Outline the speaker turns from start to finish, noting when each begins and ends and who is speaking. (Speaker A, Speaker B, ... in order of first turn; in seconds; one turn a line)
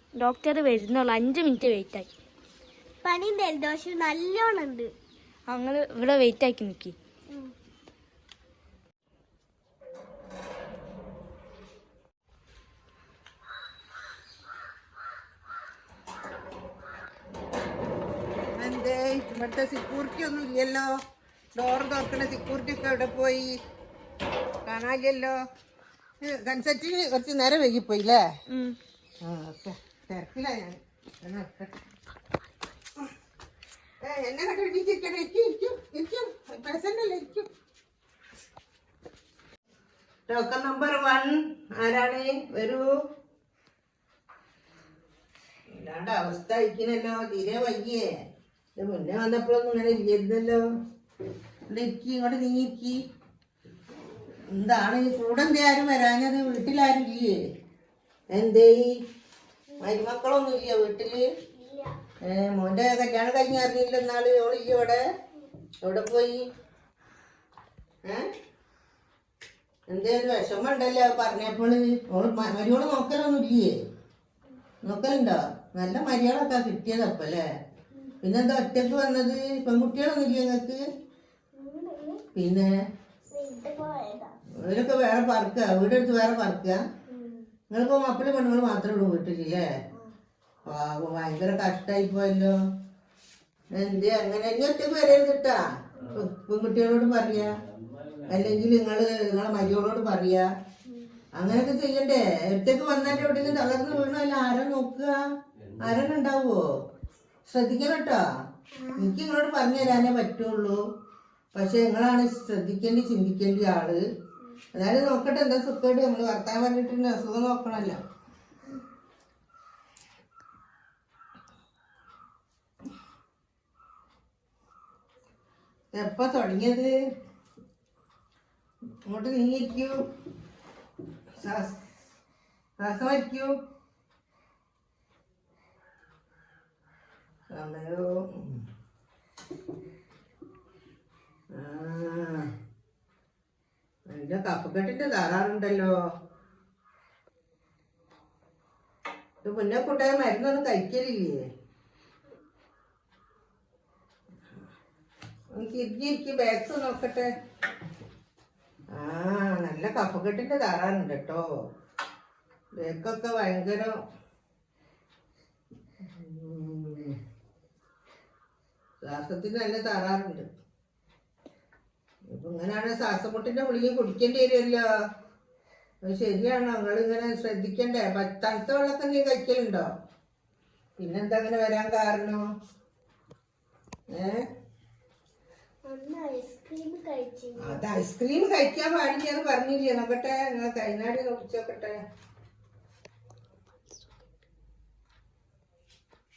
Speaker A: 0.1-2.1
Speaker B: 3.0-4.9
Speaker A: 5.5-7.0
Speaker C: 18.5-20.9
Speaker C: 21.6-23.6
Speaker C: 24.6-25.4
Speaker C: 26.2-28.3
Speaker A: 28.5-28.8
Speaker C: 29.2-31.7
Speaker C: 34.0-37.5
Speaker C: 40.3-42.9
Speaker C: 45.7-48.0
Speaker C: 48.8-50.6
Speaker C: 51.7-53.0
Speaker C: 54.5-57.4
Speaker C: 58.3-58.9
Speaker C: 59.8-61.2
Speaker B: 61.5-61.9
Speaker C: 62.2-65.0
Speaker C: 65.8-66.4
Speaker C: 69.9-73.8
Speaker C: 74.8-77.4
Speaker C: 78.2-80.8
Speaker B: 81.5-82.2
Speaker C: 82.3-82.7
Speaker B: 83.2-84.3
Speaker C: 84.6-86.8
Speaker B: 87.1-87.5
Speaker C: 87.7-89.7
Speaker C: 90.7-92.5
Speaker C: 93.7-97.6
Speaker C: 98.3-100.5
Speaker C: 101.3-105.1
Speaker C: 105.8-106.6
Speaker C: 107.5-108.2
Speaker B: 108.8-109.1
Speaker C: 109.0-110.8
Speaker C: 111.5-114.0
Speaker C: 114.7-118.0
Speaker C: 125.9-126.9
Speaker C: 129.0-130.0
Speaker C: 131.4-131.8
Speaker C: 132.8-133.5
Speaker C: 137.5-138.6
Speaker C: 141.5-142.5
Speaker C: 144.1-145.9
Speaker C: 149.4-151.4
Speaker C: 155.5-157.3
Speaker C: 158.9-161.4
Speaker C: 162.8-163.9
Speaker C: 166.0-167.2
Speaker C: 169.0-170.5
Speaker C: 172.3-174.8
Speaker C: 176.0-179.9
Speaker C: 181.0-182.4
Speaker C: 184.1-184.4
Speaker B: 185.8-187.8
Speaker C: 187.6-191.9